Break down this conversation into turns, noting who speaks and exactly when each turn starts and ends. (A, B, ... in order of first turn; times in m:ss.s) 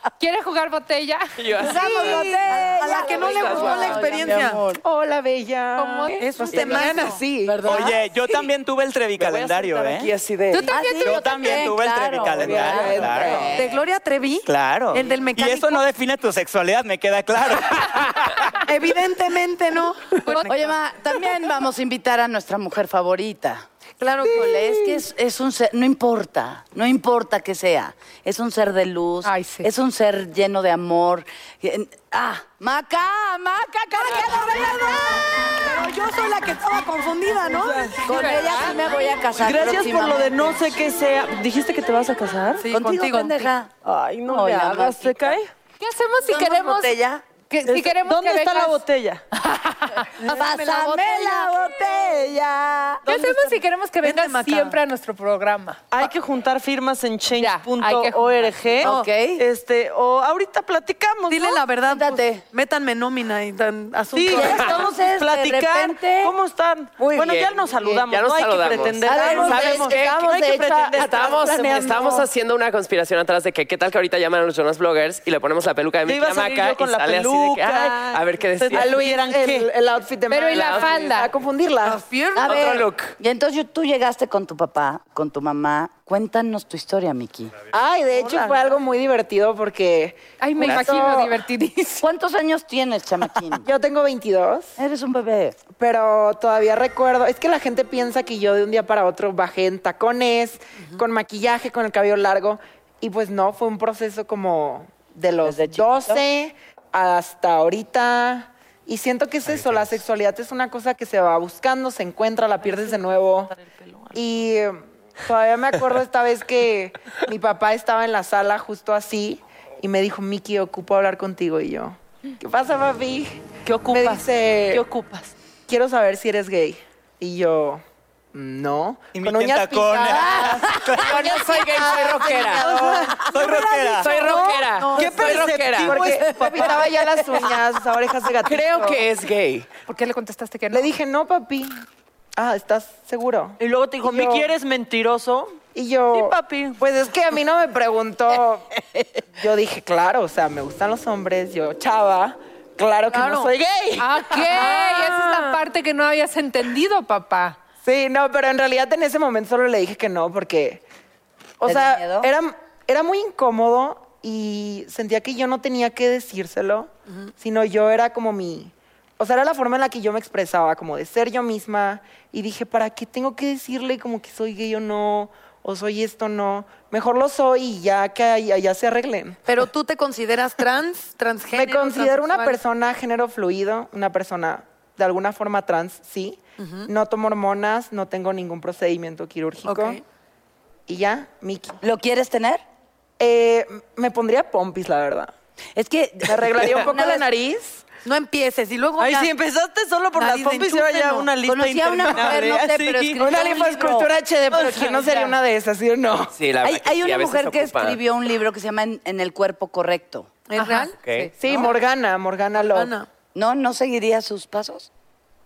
0:00.2-0:01.3 A
0:01.4-0:02.3 B
0:01.6-0:04.1 C
0:01.6-0:04.8 D
0:01.8-0:04.6 E
0:02.0-0:02.3 A
0:03.2-0:04.0 B
0:04.8-0:07.6 C
0:05.8-0:06.2 A
0:06.2-0:07.2 E
0:06.6-0:08.4 D
0:07.6-0:10.1 F
0:09.2-0:10.7 B
0:10.5-0:11.2 A
0:10.6-0:13.8 D
0:11.0-0:13.6 F
0:12.5-0:13.6 C
0:13.6-0:15.8 E
0:14.5-0:18.6 F
0:18.6-0:20.7 E
0:20.5-0:23.6 D
0:24.0-0:24.7 E
0:24.2-0:40.8 D
0:29.2-0:29.7 A
0:35.7-0:37.9 E
0:37.4-0:38.0 G
0:38.1-0:38.8 A
0:39.4-0:42.6 G
0:42.6-0:43.5 E
0:42.7-0:43.8 D
0:43.8-0:45.5 G
0:44.3-0:45.4 D
0:45.8-0:47.0 A
0:46.3-0:47.2 D
0:47.5-0:50.1 A
0:47.7-0:49.2 G
0:50.2-0:53.1 D
0:50.2-0:51.7 E
0:53.1-0:55.8 A
0:53.1-0:54.8 E
0:55.9-1:01.6 G
0:57.3-0:58.8 A
0:58.8-0:59.4 D
1:01.3-1:04.6 E
1:01.9-1:02.4 D
1:04.1-1:12.1 G
1:04.3-1:06.4 D
1:07.1-1:10.3 B
1:09.0-1:12.3 C
1:09.0-1:09.9 D
1:10.9-1:19.1 B
1:16.0-1:19.7 G
1:18.7-1:22.0 C
1:20.3-1:21.3 A
1:20.5-1:20.9 B
1:22.1-1:22.5 E
1:22.4-1:27.5 D
1:22.4-1:23.1 G
1:22.5-1:23.1 B
1:27.7-1:31.4 C
1:28.1-1:28.6 G
1:30.4-1:32.1 A
1:30.7-1:31.1 D
1:32.0-1:33.7 D
1:33.6-1:34.8 C
1:34.8-1:35.6 D
1:35.8-1:53.5 C
1:45.4-1:46.2 D
1:52.6-1:54.2 G
1:54.1-2:04.8 C
2:03.7-2:05.3 G
2:05.7-2:07.8 C
2:08.3-2:19.0 C
2:09.2-2:11.2 F
2:11.0-2:12.7 B
2:12.4-2:12.9 G
2:13.3-2:14.1 F
2:13.8-2:17.4 G
2:14.0-2:16.8 B
2:14.8-2:15.3 E
2:18.4-2:19.7 B
2:19.9-2:20.9 A
2:20.7-2:21.8 C
2:22.4-2:24.5 C
2:23.6-2:25.6 G
2:25.7-2:28.7 C
2:26.1-2:26.8 G
2:29.3-2:34.9 C
2:33.1-2:33.5 E
2:34.0-2:37.6 A
2:34.6-2:35.0 G
2:37.8-2:40.8 C
2:41.6-2:59.4 C
2:41.6-2:42.3 D
2:59.5-3:02.6 E
3:01.5-3:10.0 C
3:06.6-3:06.9 E
3:09.6-3:10.0 E
3:10.9-3:11.8 C
3:11.8-3:12.6 D
3:13.2-3:15.3 C
3:15.8-3:17.3 D
3:16.2-3:17.8 C
3:18.0-3:19.3 E
3:19.0-3:23.7 G
3:20.2-3:21.3 E
3:21.4-3:24.1 D
3:22.2-3:22.4 C
3:23.2-3:26.3 C
3:24.6-3:24.9 G
3:26.3-3:28.0 B
3:26.6-3:30.3 D
3:30.5-3:31.0 E
3:30.6-3:31.3 A
3:31.0-3:31.3 B
3:31.4-3:32.9 C
3:32.6-3:33.1 E
3:33.4-3:34.9 D